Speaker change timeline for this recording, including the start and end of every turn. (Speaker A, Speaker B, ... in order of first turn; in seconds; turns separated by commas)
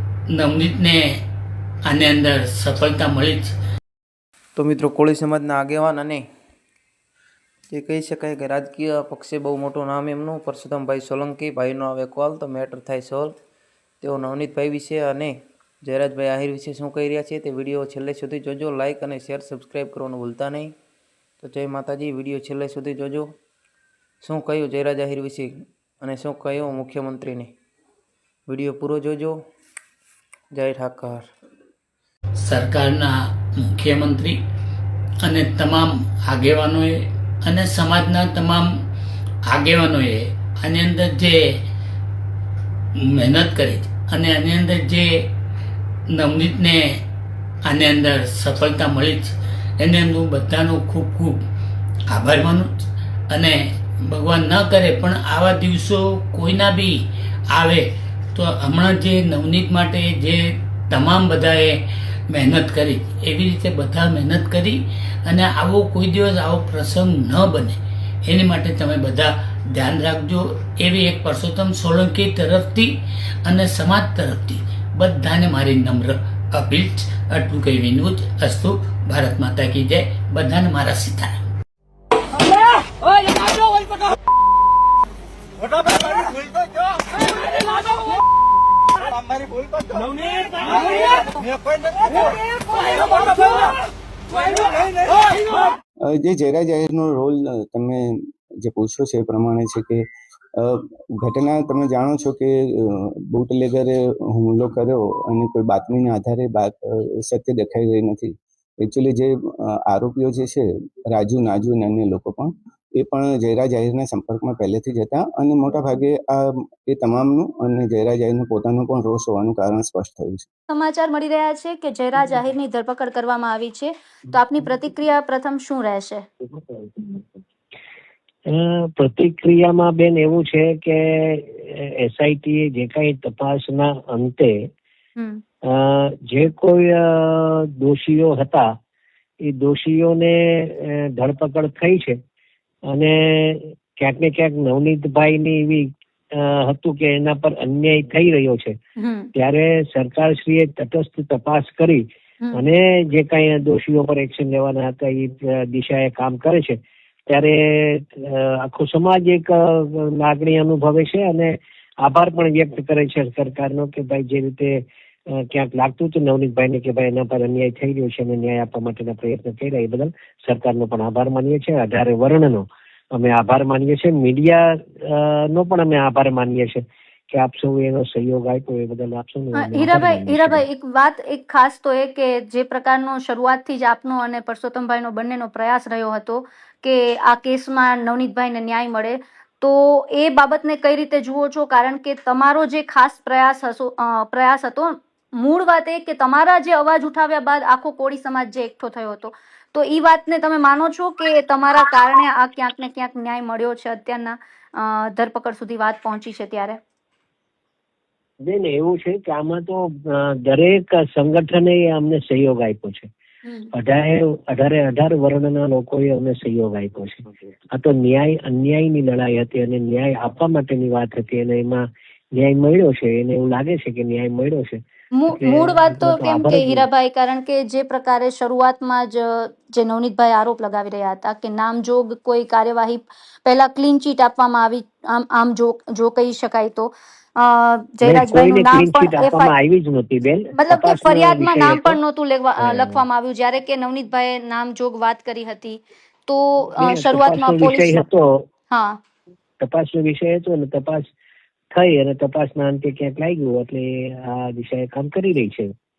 Speaker A: 0.3-1.2, Speaker A: 1.9-3.5, Speaker B: 4.6-6.3, Speaker B: 7.7-13.3, Speaker B: 14.0-20.8, Speaker B: 21.4-23.4, Speaker B: 24.2-27.5, Speaker B: 28.5-29.4, Speaker B: 30.5-31.3, Speaker A: 32.4-34.4, Speaker A: 35.2-38.7, Speaker A: 39.5-41.6, Speaker A: 43.0-45.3, Speaker A: 46.1-47.0, Speaker A: 47.7-51.4, Speaker A: 52.1-52.7, Speaker A: 53.3-81.4, Speaker C: 96.0-100.0, Speaker C: 100.6-120.5, Speaker D: 120.7-126.2, Speaker E: 126.5-127.3, Speaker E: 128.5-134.6, Speaker E: 135.7-138.7, Speaker E: 139.4-142.2, Speaker E: 142.9-148.8, Speaker E: 149.4-180.7, Speaker D: 179.6-206.8, Speaker E: 208.4-213.1, Speaker E: 213.7-224.8, Speaker D: 225.2-239.5, Speaker E: 225.3-226.9, Speaker E: 238.0-242.0, Speaker D: 240.6-248.0, Speaker E: 242.6-243.0, Speaker E: 246.8-248.5, Speaker E: 249.6-251.1, Speaker E: 251.7-255.7